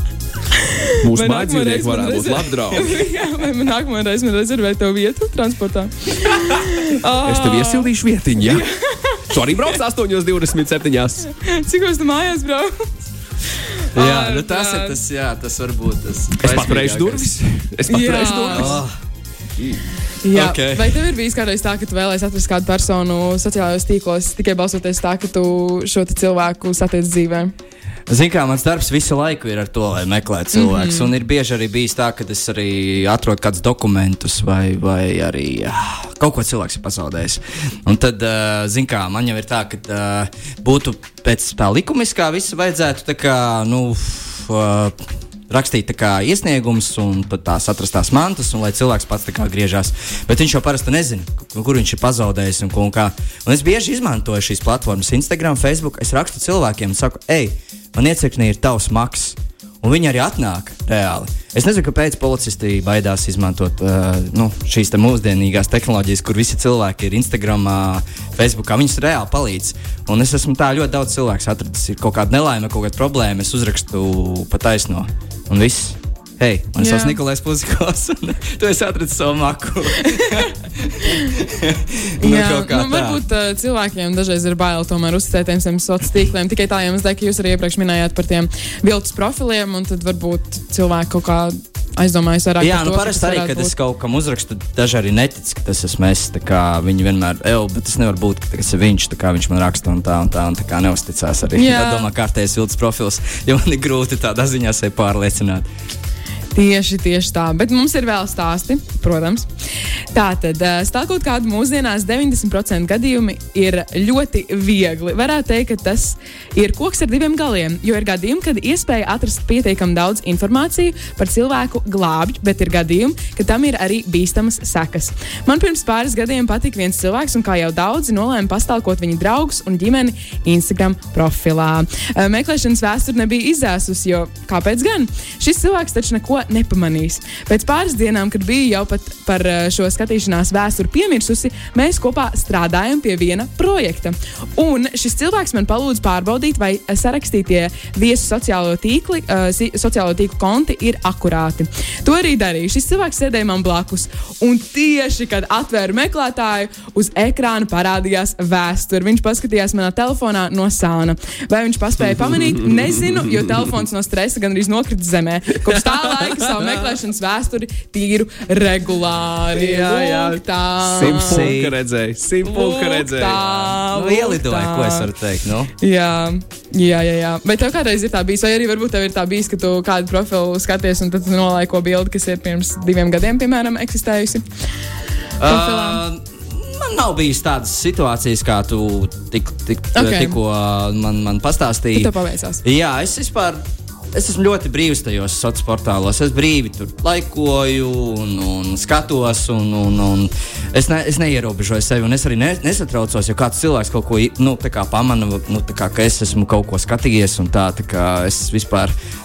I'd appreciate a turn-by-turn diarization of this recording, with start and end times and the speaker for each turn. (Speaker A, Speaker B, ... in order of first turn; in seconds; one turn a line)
Speaker A: 0.5-7.9
Speaker B: 1.0-3.0
Speaker B: 7.2-8.7
Speaker A: 8.4-9.7
Speaker B: 9.3-11.2
Speaker A: 11.3-12.8
Speaker A: 13.6-15.0
Speaker C: 13.9-17.3
Speaker B: 16.4-18.8
Speaker A: 17.9-18.8
Speaker C: 18.5-18.9
Speaker A: 20.2-27.5
Speaker C: 20.3-21.0
Speaker C: 28.1-45.0
Speaker A: 30.5-31.1
Speaker C: 45.5-83.2
Speaker A: 76.8-77.2
Speaker A: 81.0-81.3
Speaker A: 82.2-93.7
Speaker C: 92.6-105.7
Speaker A: 101.5-102.1
Speaker A: 106.5-109.5
Speaker A: 110.1-171.5
Speaker B: 162.1-163.4
Speaker B: 165.7-166.8
Speaker B: 169.6-173.4
Speaker C: 171.0-171.8
Speaker A: 172.4-175.1
Speaker C: 173.3-175.7
Speaker A: 175.8-184.4
Speaker C: 185.4-193.6
Speaker A: 185.4-186.0
Speaker A: 189.9-190.4
Speaker A: 191.9-192.6
Speaker C: 194.1-208.9